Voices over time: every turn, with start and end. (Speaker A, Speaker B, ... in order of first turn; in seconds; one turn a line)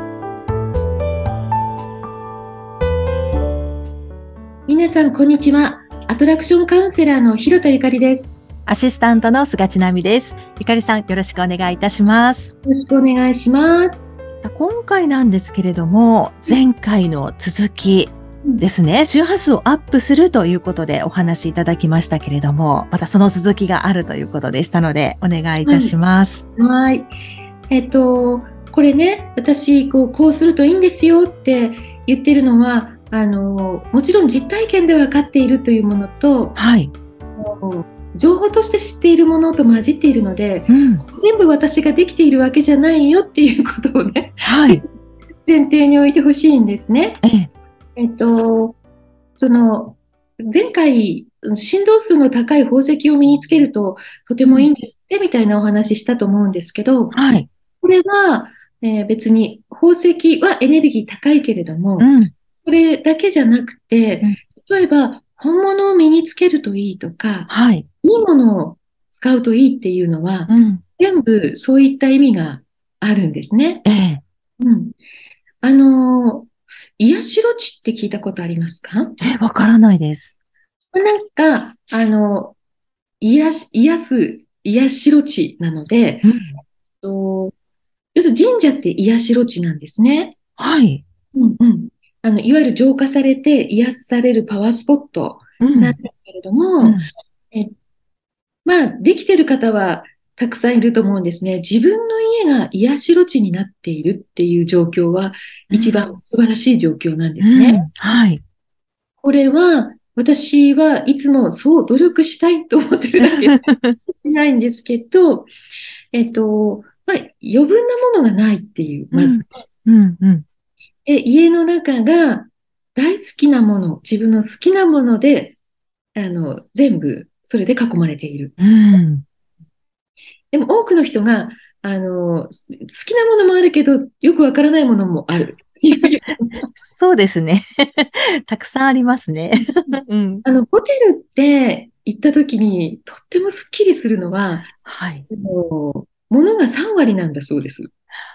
Speaker A: 4.7-8.4
Speaker B: 8.7-12.5
Speaker A: 12.6-14.1
Speaker B: 14.4-26.4
Speaker A: 25.6-25.9
Speaker A: 26.6-27.1
Speaker A: 27.7-36.6
Speaker B: 36.5-36.9
Speaker A: 37.4-44.8
Speaker B: 40.7-41.0
Speaker B: 44.4-44.8
Speaker A: 45.5-47.2
Speaker B: 47.2-47.5
Speaker A: 48.0-48.8
Speaker A: 49.4-57.2
Speaker B: 57.1-57.5
Speaker A: 57.8-62.1
Speaker B: 62.0-62.3
Speaker A: 62.6-67.5
Speaker B: 67.5-67.8
Speaker A: 68.0-73.8
Speaker B: 70.5-70.8
Speaker B: 73.8-74.2
Speaker A: 74.6-74.9
Speaker A: 75.6-79.2
Speaker B: 79.2-80.3
Speaker A: 80.9-82.5
Speaker A: 83.2-86.3
Speaker B: 86.2-86.6
Speaker A: 87.0-87.5
Speaker A: 88.1-90.3
Speaker B: 90.6-91.0
Speaker A: 91.3-97.0
Speaker B: 95.6-96.0
Speaker B: 96.8-97.1
Speaker A: 98.6-107.8
Speaker B: 105.7-106.0
Speaker B: 107.4-108.4
Speaker A: 109.2-115.5
Speaker B: 113.4-114.0
Speaker A: 116.1-119.5
Speaker B: 119.1-120.4
Speaker A: 121.0-125.5
Speaker A: 126.1-128.5
Speaker B: 128.6-129.2
Speaker A: 130.5-136.7
Speaker B: 136.8-140.4
Speaker A: 140.4-144.7
Speaker B: 144.8-145.3
Speaker A: 145.3-147.9